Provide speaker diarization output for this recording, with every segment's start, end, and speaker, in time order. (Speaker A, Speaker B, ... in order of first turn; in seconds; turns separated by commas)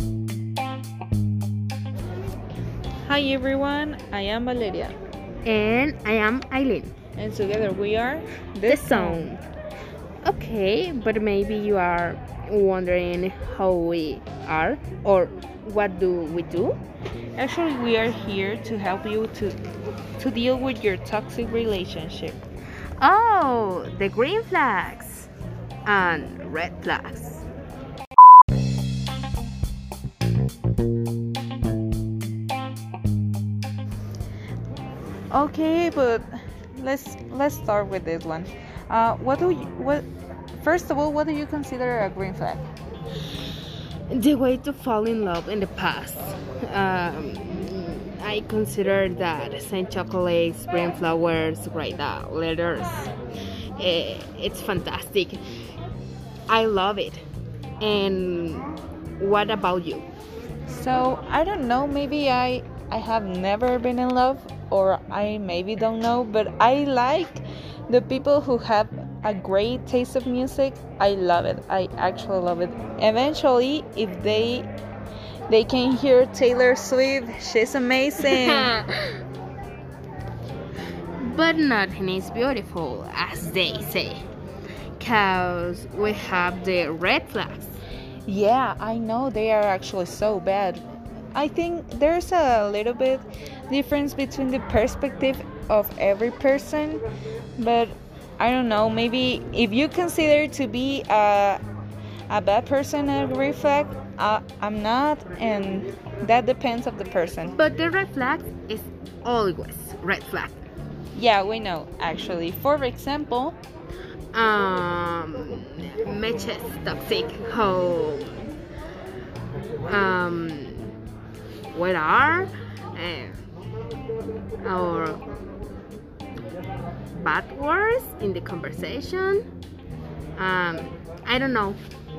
Speaker A: 3.0-4.9, Speaker B: 5.4-6.9, Speaker A: 7.2-9.3, Speaker B: 8.7-9.4, Speaker B: 10.2-16.8, Speaker A: 17.4-19.6, Speaker A: 20.2-22.4, Speaker B: 23.0-25.3, Speaker B: 25.8-27.4, Speaker A: 35.3-40.0, Speaker A: 40.6-42.7, Speaker B: 44.1-53.1, Speaker B: 53.8-55.4, Speaker B: 56.5-57.2, Speaker B: 57.8-60.1, Speaker A: 60.7-74.7, Speaker A: 75.5-78.7, Speaker B: 78.2-79.1, Speaker B: 81.2-84.2, Speaker B: 85.0-87.8, Speaker A: 88.2-90.8, Speaker A: 91.3-97.0, Speaker A: 97.6-101.6, Speaker A: 102.3-107.5, Speaker B: 107.5-110.6, Speaker A: 111.1-113.6, Speaker B: 114.3-118.4, Speaker B: 119.8-120.9, Speaker B: 121.7-123.4, Speaker B: 124.6-125.2, Speaker B: 127.1-129.5, Speaker B: 130.3-131.8